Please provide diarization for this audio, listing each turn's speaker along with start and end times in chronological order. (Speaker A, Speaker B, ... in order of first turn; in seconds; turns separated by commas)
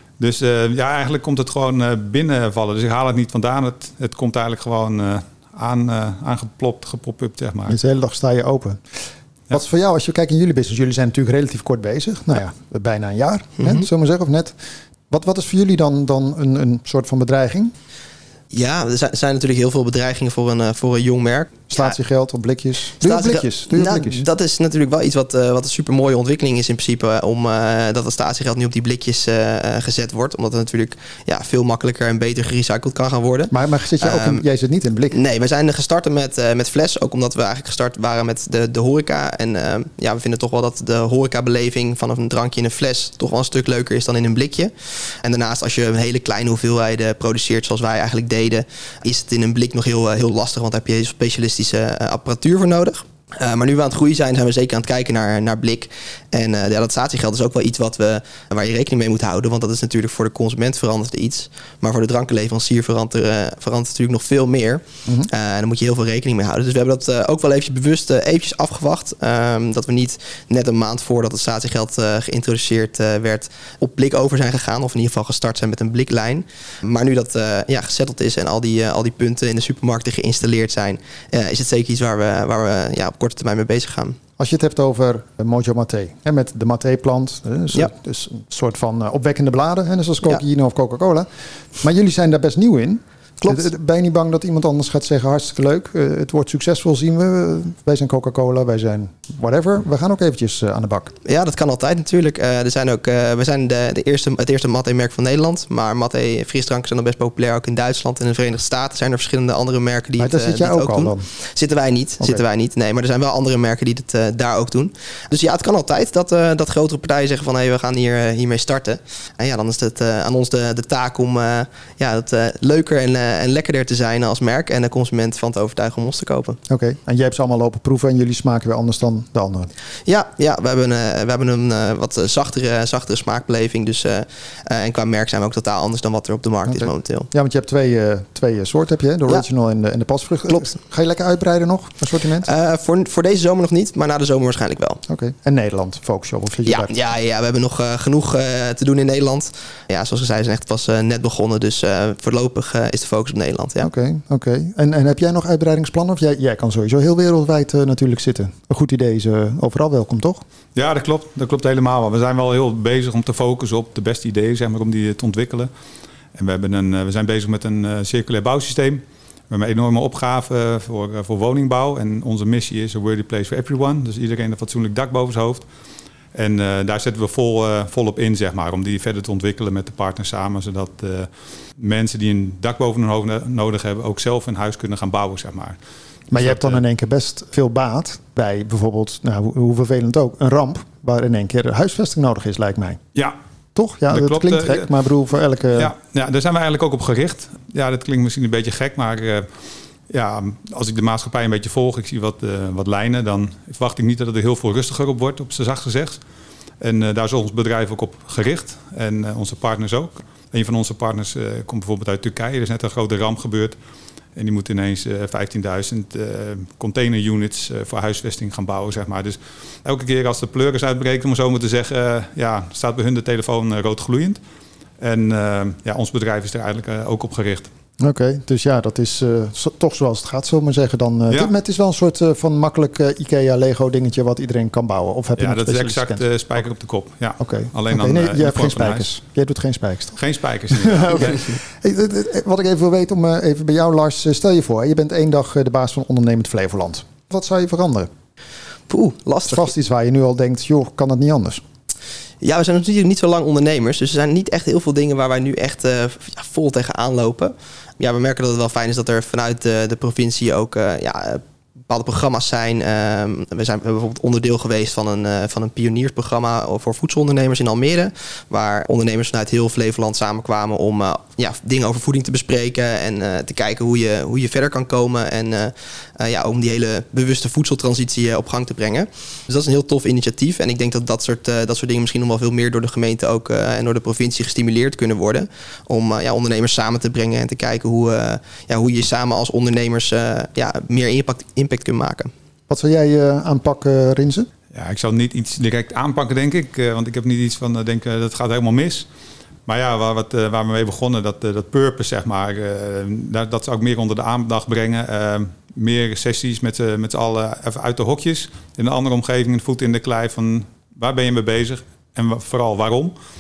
Speaker A: 0.2-7.8, Speaker B: 7.7-8.8, Speaker B: 9.5-14.5, Speaker C: 13.6-13.9, Speaker B: 15.1-17.7, Speaker C: 18.5-22.0, Speaker B: 21.7-24.2, Speaker C: 23.0-34.4, Speaker B: 33.5-35.2, Speaker C: 35.1-84.2, Speaker B: 84.4-91.3, Speaker B: 91.8-101.1, Speaker C: 101.2-126.6, Speaker B: 110.2-111.3, Speaker B: 126.7-129.7, Speaker C: 130.1-137.3, Speaker B: 136.7-142.5, Speaker C: 142.4-145.0, Speaker B: 145.1-146.9, Speaker C: 146.7-153.9, Speaker B: 153.8-160.4, Speaker A: 160.8-165.7, Speaker A: 166.3-175.7, Speaker A: 176.3-185.8, Speaker B: 186.3-193.0, Speaker A: 186.3-186.8, Speaker B: 193.8-195.9, Speaker A: 194.1-194.9, Speaker A: 195.7-199.5, Speaker A: 200.1-206.2, Speaker A: 206.8-213.8, Speaker A: 214.4-224.4, Speaker A: 225.0-227.7, Speaker B: 228.0-236.2, Speaker A: 235.4-239.1, Speaker B: 237.4-248.1, Speaker A: 240.2-241.5, Speaker C: 248.9-249.7, Speaker B: 249.5-251.6, Speaker C: 252.4-292.3, Speaker B: 292.7-294.5, Speaker A: 294.7-299.1, Speaker A: 299.7-313.1